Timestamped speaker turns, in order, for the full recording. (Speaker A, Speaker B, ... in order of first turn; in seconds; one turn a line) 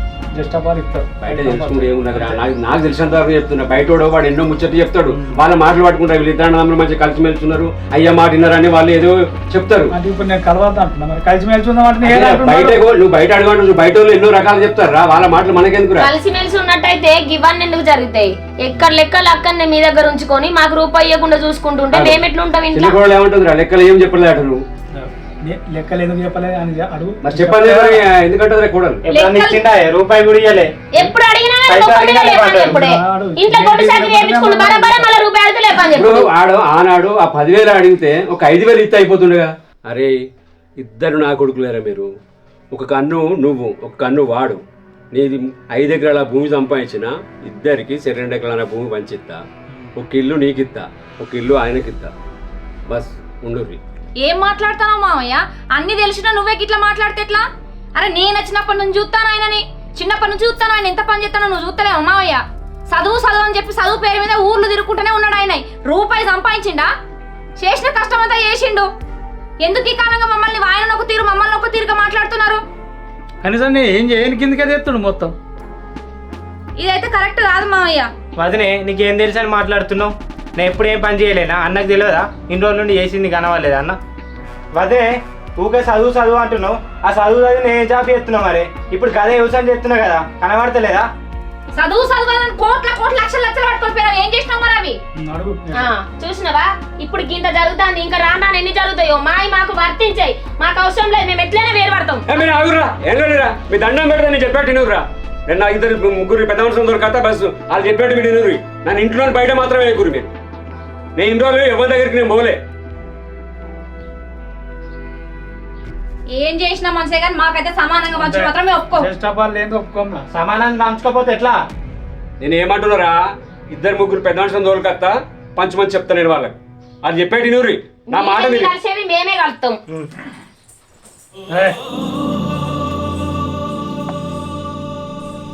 Speaker A: 0.3-2.5
Speaker B: 1.2-9.9
Speaker A: 5.1-5.4
Speaker A: 9.9-12.8
Speaker B: 12.0-16.1
Speaker C: 15.9-23.0
Speaker B: 21.9-24.6
Speaker A: 24.9-27.9
Speaker B: 27.2-29.0
Speaker D: 27.6-27.9
Speaker D: 29.1-30.7
Speaker C: 29.1-29.4
Speaker C: 30.9-36.3
Speaker D: 31.7-32.8
Speaker A: 32.5-35.1
Speaker B: 35.9-40.1
Speaker B: 40.8-42.1
Speaker B: 42.7-44.6
Speaker B: 45.1-49.4
Speaker B: 50.0-52.1
Speaker B: 52.9-53.8
Speaker E: 54.2-57.4
Speaker E: 58.0-66.9
Speaker E: 67.6-68.9
Speaker E: 69.6-72.6
Speaker A: 73.4-75.3
Speaker E: 76.8-78.1
Speaker D: 78.4-84.0
Speaker D: 84.7-91.1
Speaker E: 91.8-95.0
Speaker A: 95.2-95.9
Speaker C: 95.7-102.2
Speaker B: 102.3-110.3
Speaker B: 111.2-112.6
Speaker E: 116.3-119.1
Speaker A: 118.2-120.2
Speaker D: 120.3-121.6
Speaker B: 122.4-128.7
Speaker C: 128.1-129.8
Speaker A: 131.5-131.8